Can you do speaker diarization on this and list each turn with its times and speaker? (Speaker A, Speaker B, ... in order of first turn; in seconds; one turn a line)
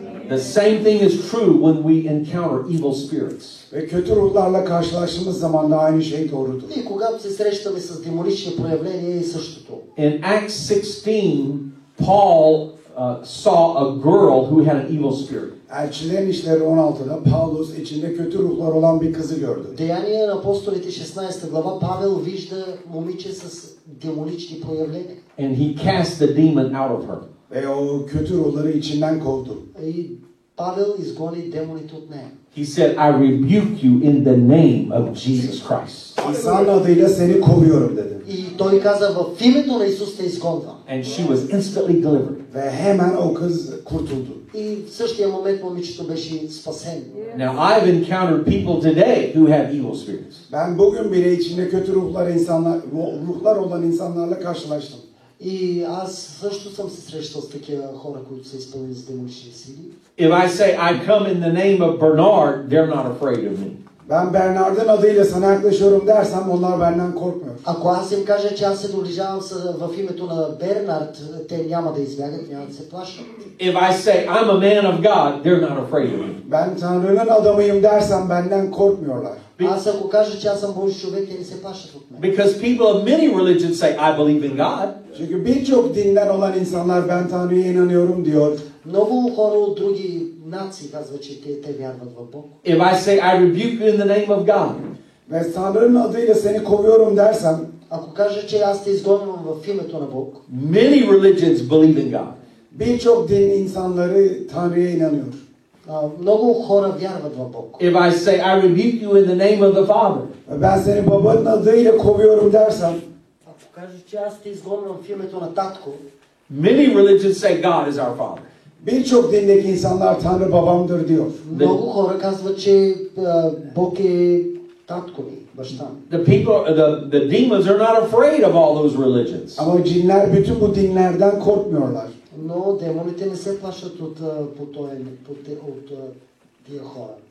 Speaker A: 0.3-3.6
Speaker B: 3.7-6.7
Speaker C: 6.7-9.8
Speaker A: 9.9-15.5
Speaker B: 15.7-19.8
Speaker C: 19.7-25.2
Speaker A: 25.4-27.2
Speaker B: 27.5-29.6
Speaker C: 29.7-32.3
Speaker A: 32.5-36.2
Speaker B: 36.2-38.2
Speaker C: 38.2-40.8
Speaker A: 40.9-42.4
Speaker B: 42.5-44.4
Speaker C: 44.5-47.2
Speaker A: 47.3-50.4
Speaker B: 50.5-55.0
Speaker C: 55.4-59.9
Speaker A: 60.2-63.8
Speaker B: 64.0-67.6
Speaker C: 67.6-73.5
Speaker A: 73.6-76.4
Speaker B: 76.4-79.5
Speaker C: 79.6-82.2
Speaker A: 82.2-84.9
Speaker B: 85.1-88.6
Speaker C: 88.8-92.5
Speaker A: 92.6-94.8
Speaker B: 95.3-97.7
Speaker C: 97.9-100.4
Speaker A: 100.5-102.4
Speaker B: 102.7-105.4
Speaker C: 105.8-107.8
Speaker A: 107.8-110.3
Speaker B: 110.5-113.0
Speaker C: 113.5-116.0
Speaker A: 116.5-118.5
Speaker B: 118.8-121.4
Speaker C: 121.4-126.0
Speaker A: 126.1-129.7
Speaker B: 129.6-132.1
Speaker C: 132.3-137.2